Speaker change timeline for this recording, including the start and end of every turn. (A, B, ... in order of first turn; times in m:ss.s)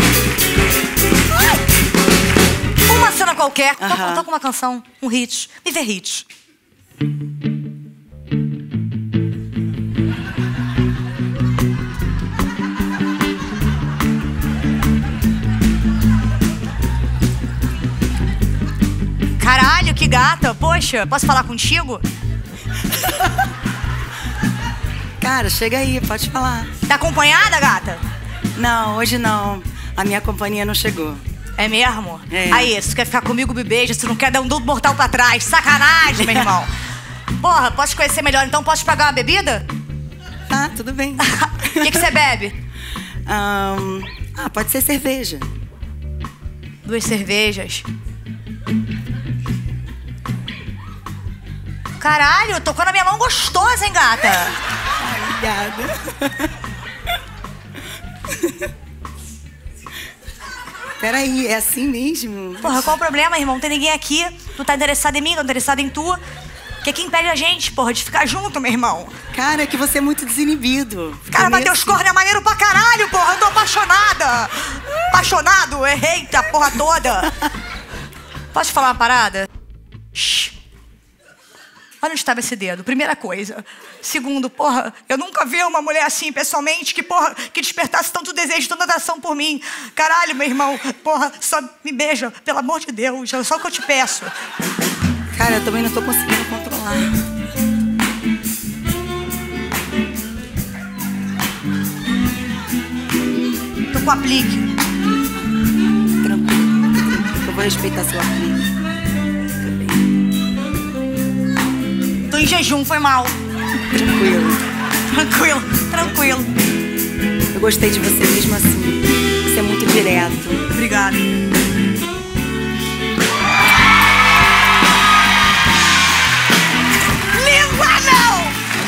0:02.9-0:06.2 A
0:03.8-0:04.3 B
0:19.4-0:22.0 A
0:25.2-0:26.7 B
0:26.9-0:28.0 A
0:28.5-0:31.2 B
0:31.6-0:36.7 A
0:32.3-0:32.7 B
0:37.4-0:39.6 A
0:40.5-0:42.1 B
0:41.2-0:42.6 A
0:43.2-0:45.5 B
0:46.8-0:47.9 A
0:52.0-0:54.6 A
0:55.0-0:56.5 B
1:01.0-1:02.8 B
1:02.6-1:06.2 A
1:06.8-1:09.2 A
1:09.3-1:12.0 B
1:11.3-1:17.4 A
1:18.5-1:19.5 A
1:20.1-1:20.5 A
1:22.0-1:34.3 A
1:35.3-1:37.2 B
1:43.9-1:44.7 A
1:46.2-1:48.6 B
1:52.3-1:53.3 A
1:53.9-1:54.6 B
1:55.1-1:56.5 A
1:56.0-1:56.3 B
1:57.5-2:00.6 B
2:00.7-2:01.3 A
2:07.3-2:08.6 A